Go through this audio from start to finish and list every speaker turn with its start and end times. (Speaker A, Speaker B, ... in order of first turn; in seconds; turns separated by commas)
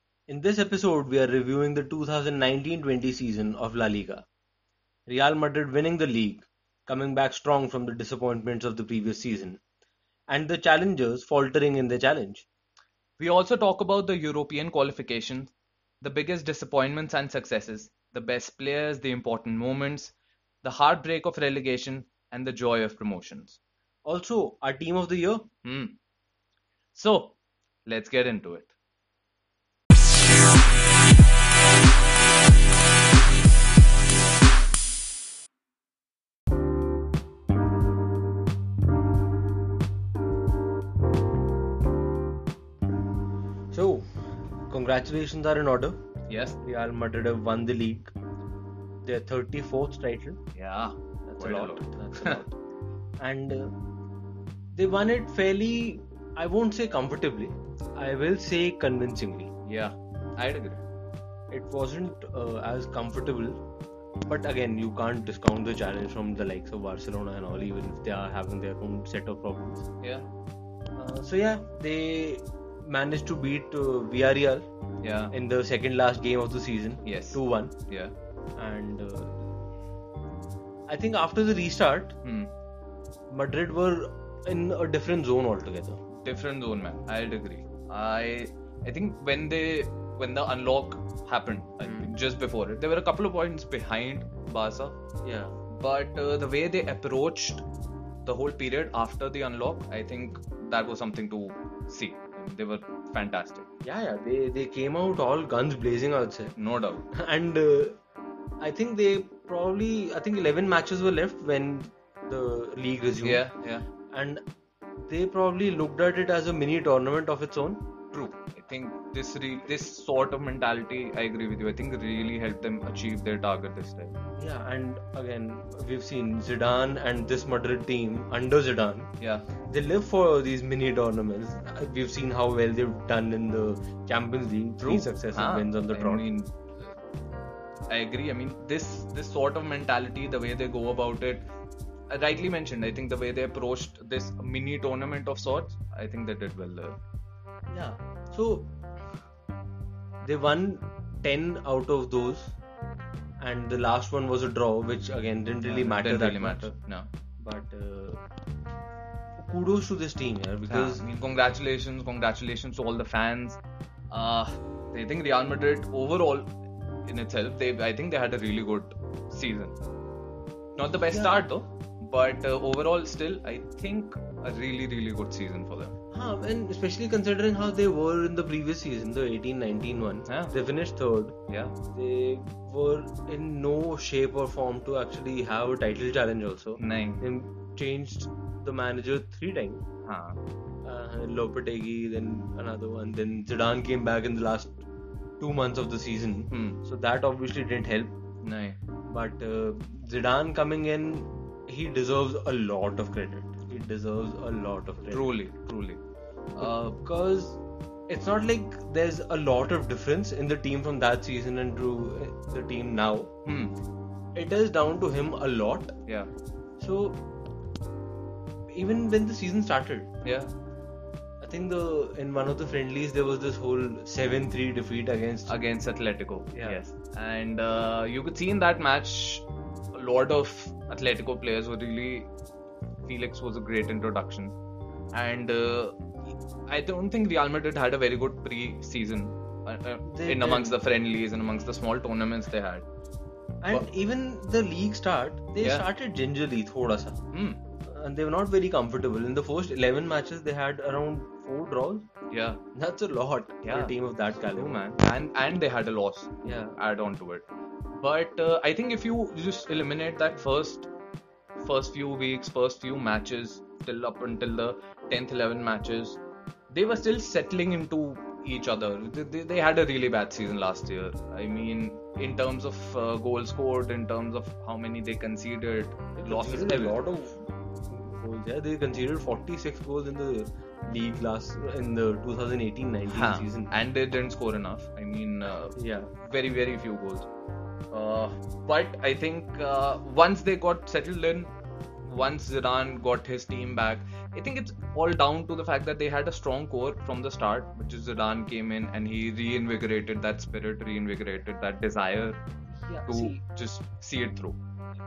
Speaker A: 0.3-4.2, Speaker A: 5.1-9.6, Speaker A: 10.3-12.5, Speaker B: 13.2-23.6, Speaker A: 24.0-25.5, Speaker B: 25.6-26.0, Speaker B: 26.9-28.7, Speaker A: 43.7-46.0, Speaker B: 46.3-46.6, Speaker A: 46.6-48.1, Speaker A: 49.0-50.4, Speaker B: 50.5-52.4, Speaker A: 51.3-52.5, Speaker A: 53.2-53.7, Speaker A: 54.7-59.5, Speaker B: 59.6-60.8, Speaker A: 61.5-63.6, Speaker A: 64.2-69.8, Speaker B: 70.0-70.3, Speaker A: 71.0-74.7, Speaker B: 75.0-75.3, Speaker A: 75.3-77.7, Speaker B: 77.0-78.1, Speaker A: 78.5-79.4, Speaker A: 80.9-82.2, Speaker B: 82.2-82.5, Speaker A: 83.3-86.0, Speaker B: 86.1-95.0, Speaker A: 91.8-92.1, Speaker A: 95.2-95.6, Speaker B: 95.7-97.6, Speaker B: 98.2-103.7, Speaker A: 103.8-106.5, Speaker B: 106.6-107.0, Speaker A: 107.1-108.0, Speaker A: 108.6-113.5, Speaker B: 113.2-113.8, Speaker A: 114.1-114.4, Speaker A: 115.1-117.8, Speaker B: 118.1-124.2, Speaker A: 124.4-129.1, Speaker B: 129.2-129.5, Speaker A: 129.7-136.3, Speaker B: 134.8-136.5, Speaker B: 137.9-141.4, Speaker B: 142.1-147.0, Speaker A: 147.7-148.7, Speaker A: 150.2-152.5, Speaker A: 153.4-156.7, Speaker B: 155.6-157.1, Speaker A: 157.4-158.2, Speaker A: 159.4-161.0, Speaker B: 160.7-163.6, Speaker B: 164.1-166.5, Speaker B: 167.1-169.8, Speaker B: 170.8-175.9, Speaker A: 170.9-171.5, Speaker A: 176.1-181.3, Speaker B: 180.2-180.5, Speaker B: 181.5-181.7, Speaker A: 181.9-189.8, Speaker B: 186.8-187.3, Speaker B: 190.0-190.4, Speaker A: 190.8-194.8, Speaker A: 195.4-198.1, Speaker B: 196.5-196.8, Speaker B: 198.4-198.8, Speaker A: 199.1-205.3, Speaker B: 205.1-206.0, Speaker B: 206.5-207.0, Speaker A: 206.6-213.3, Speaker B: 213.4-213.7, Speaker A: 214.3-215.9, Speaker A: 216.8-217.2, Speaker A: 218.7-220.1, Speaker B: 220.2-220.5, Speaker A: 221.4-225.6, Speaker B: 225.4-232.3, Speaker A: 226.5-226.8, Speaker B: 233.0-234.5, Speaker B: 235.1-236.0, Speaker B: 236.7-242.8, Speaker A: 240.0-240.8, Speaker A: 243.6-247.2, Speaker B: 247.3-247.6, Speaker A: 247.8-252.1, Speaker B: 252.3-252.6, Speaker A: 252.7-254.8, Speaker B: 253.6-253.9, Speaker B: 254.5-257.4, Speaker A: 256.4-256.8, Speaker B: 258.0-260.9, Speaker B: 261.6-277.0, Speaker A: 276.2-283.7, Speaker B: 283.1-287.3, Speaker A: 285.8-286.1, Speaker B: 287.9-291.5, Speaker B: 292.0-302.4, Speaker A: 302.7-303.4, Speaker B: 303.1-304.6